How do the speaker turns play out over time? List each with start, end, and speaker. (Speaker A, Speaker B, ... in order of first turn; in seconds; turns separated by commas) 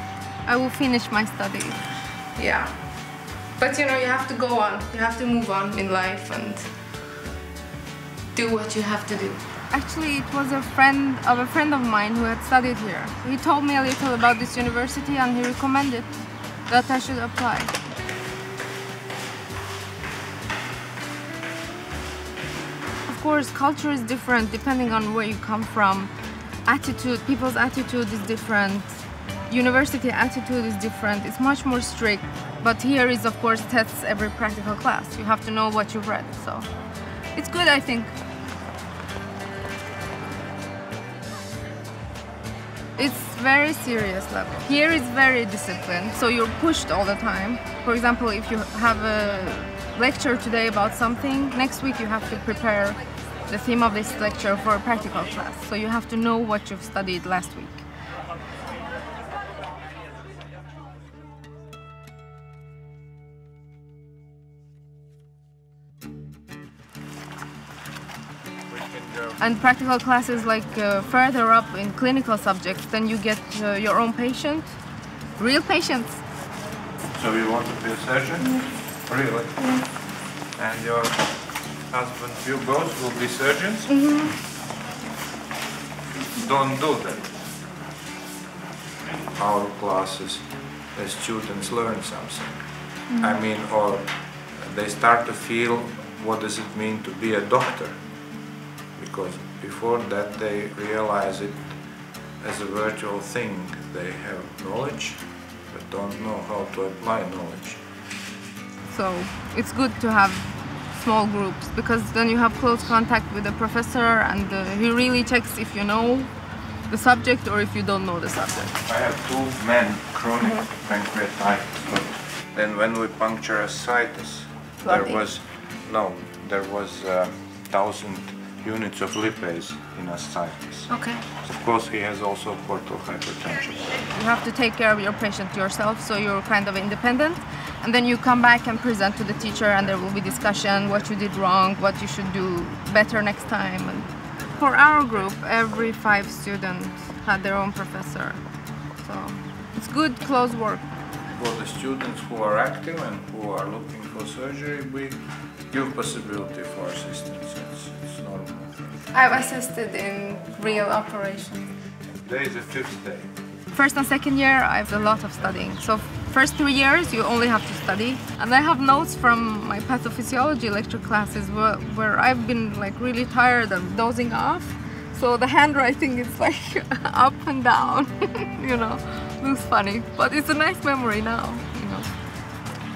Speaker A: 0.5-2.7, Speaker A: 3.6-6.7, Speaker A: 8.3-16.1, Speaker A: 16.7-17.7, Speaker A: 23.1-26.1, Speaker A: 26.6-36.7, Speaker A: 37.3-38.1, Speaker A: 43.0-57.8, Speaker B: 68.8-69.2, Speaker A: 69.4-74.8, Speaker A: 75.4-76.2, Speaker B: 77.1-79.8, Speaker B: 80.5-83.9, Speaker A: 83.9-84.4, Speaker B: 86.3-87.3, Speaker B: 89.3-98.0, Speaker B: 99.0-101.7, Speaker B: 102.4-107.8, Speaker A: 108.9-116.3, Speaker A: 116.9-118.7, Speaker B: 118.8-134.0, Speaker A: 120.4-120.7, Speaker A: 124.8-125.2, Speaker A: 130.9-131.2, Speaker A: 134.1-148.4, Speaker A: 149.0-150.8, Speaker B: 151.3-159.1, Speaker A: 159.1-161.7, Speaker B: 162.2-163.3, Speaker A: 163.7-182.1